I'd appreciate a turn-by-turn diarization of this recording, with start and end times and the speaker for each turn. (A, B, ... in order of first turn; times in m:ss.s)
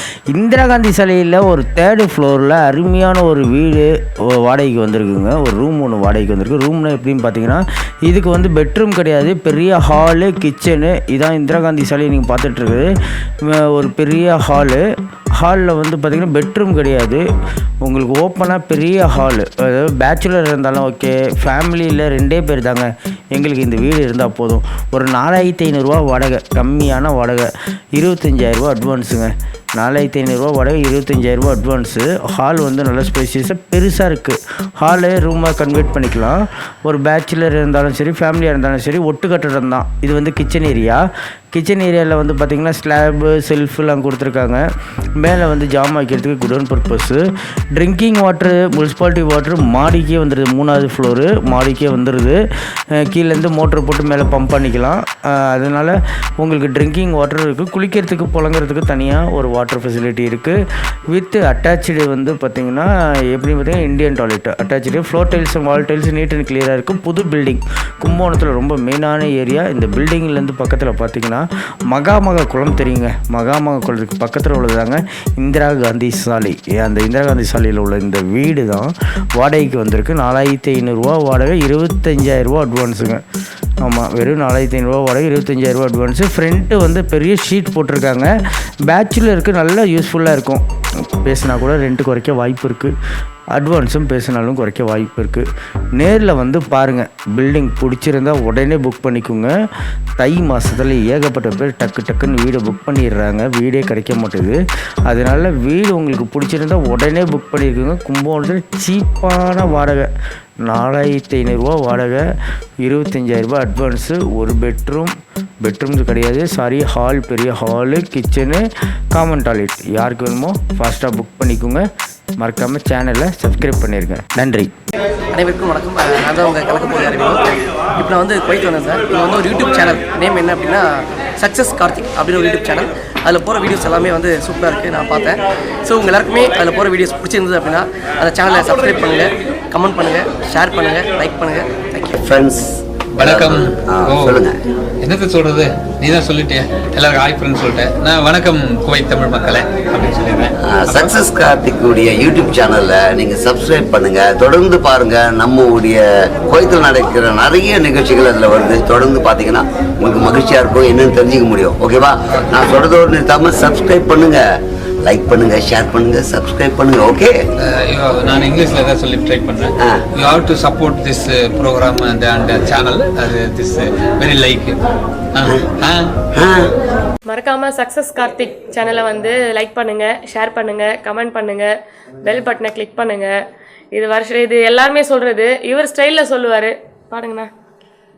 0:00.3-0:12.9 A
0:13.5-0:14.8 A
0:15.4-0:17.2 A
0:17.8-0:41.0 A
0:41.5-0:44.6 A
0:45.2-0:47.2 A
0:47.8-0:52.4 A
0:53.0-1:00.6 A
1:01.1-1:23.2 A
1:23.8-1:28.3 A
1:28.9-1:30.6 A
1:31.2-1:32.9 A
1:33.5-1:35.5 A
1:36.0-1:39.5 A
1:40.2-1:50.1 A
1:50.7-1:52.2 A
1:52.8-2:01.9 A
2:02.4-2:04.7 A
2:05.3-2:22.2 B
2:22.2-2:24.6 C
2:23.2-2:24.4 D
2:25.0-2:31.1 D
2:30.7-2:44.4 C
2:45.0-2:47.4 C
2:47.6-2:54.8 D
2:55.3-2:56.1 D
2:56.3-2:56.7 C
2:57.3-3:03.3 E
3:03.9-3:07.5 E